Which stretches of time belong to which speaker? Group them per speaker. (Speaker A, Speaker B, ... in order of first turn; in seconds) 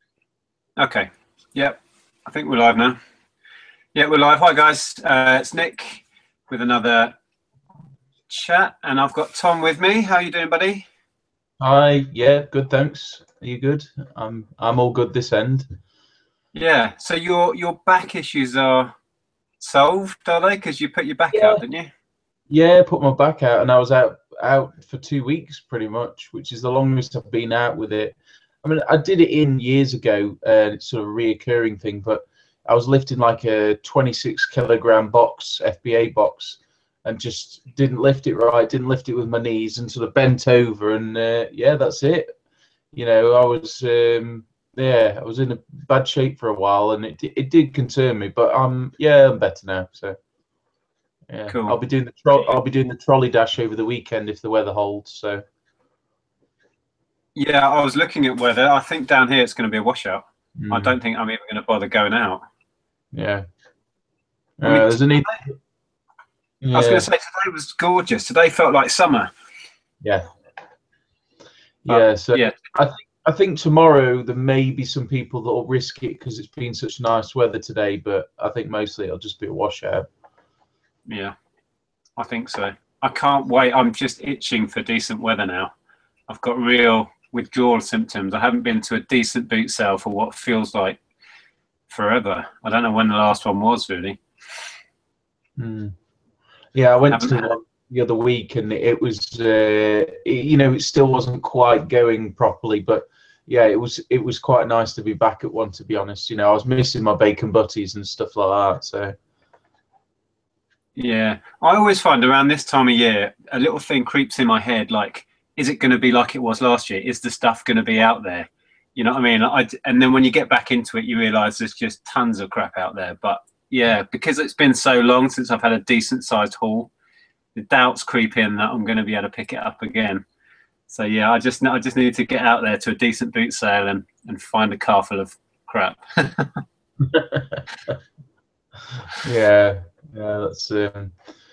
Speaker A: 0.8-3.0, 3.9-7.2, 8.3-10.9, 16.6-18.9, 19.6-21.9, 51.5-51.8, 57.4-62.4, 64.6-65.4, 66.7-69.3, 71.9-72.6, 81.1-81.3, 82.2-85.7, 86.3-91.0, 91.9-94.2, 97.1-97.4, 111.0-126.9, 127.6-130.2, 130.9-136.6
Speaker B: 11.6-15.7, 21.3-21.6, 22.5-42.3, 42.9-50.2, 51.3-55.4, 60.6-61.0, 63.1-63.4, 64.6-65.5, 66.6-67.1, 71.8-80.1, 95.6-95.9, 96.7-109.2, 137.0-137.9, 139.2-141.1